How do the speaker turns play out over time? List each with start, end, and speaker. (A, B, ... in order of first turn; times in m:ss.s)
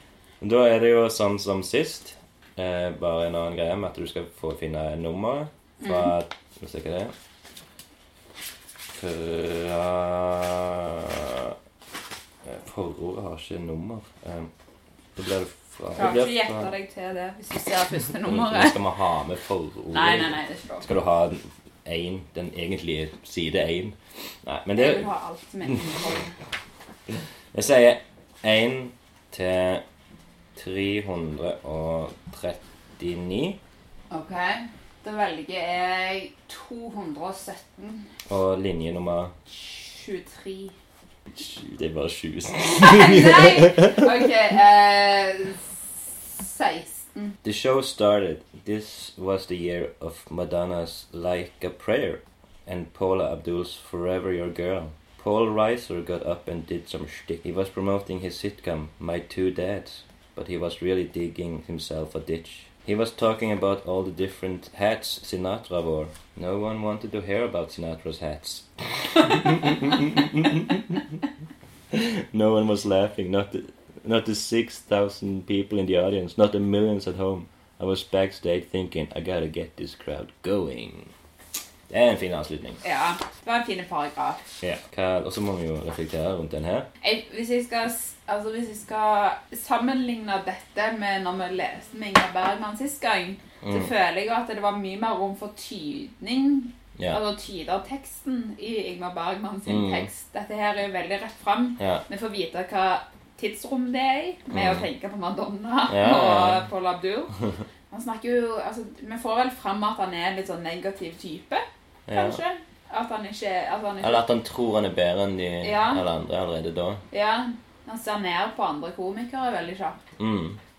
0:00.4-0:07.1 A
0:05.8-0:06.1 B
0:08.9-0:11.6 A
0:12.4-0:14.5 A
0:15.2-0:16.7 A
0:16.0-0:18.8 B
0:18.2-0:25.1 A
0:19.9-0:20.9 B
0:24.8-0:26.4 B
0:27.1-0:29.8 A
0:30.6-0:33.6 A
0:34.1-0:38.1 B
0:38.3-0:39.3 A
0:39.5-0:40.8 B
0:41.3-0:44.1 A
0:42.7-0:47.4 B
0:47.4-1:11.2 A
1:11.9-1:21.1 A
1:21.9-1:22.8 A
1:22.8-1:24.4 B
1:24.6-1:26.9 A
1:27.0-1:47.3 B
1:33.6-1:33.9 A
1:37.0-1:37.2 A
1:39.7-1:40.1 A
1:41.8-1:42.0 A
1:44.5-1:44.9 A
1:45.9-1:46.6 A
1:47.9-1:54.3 B
1:52.1-1:52.4 A
1:54.0-1:57.0 A
1:55.6-1:56.0 B
1:57.1-2:00.0 B
2:00.2-2:00.6 A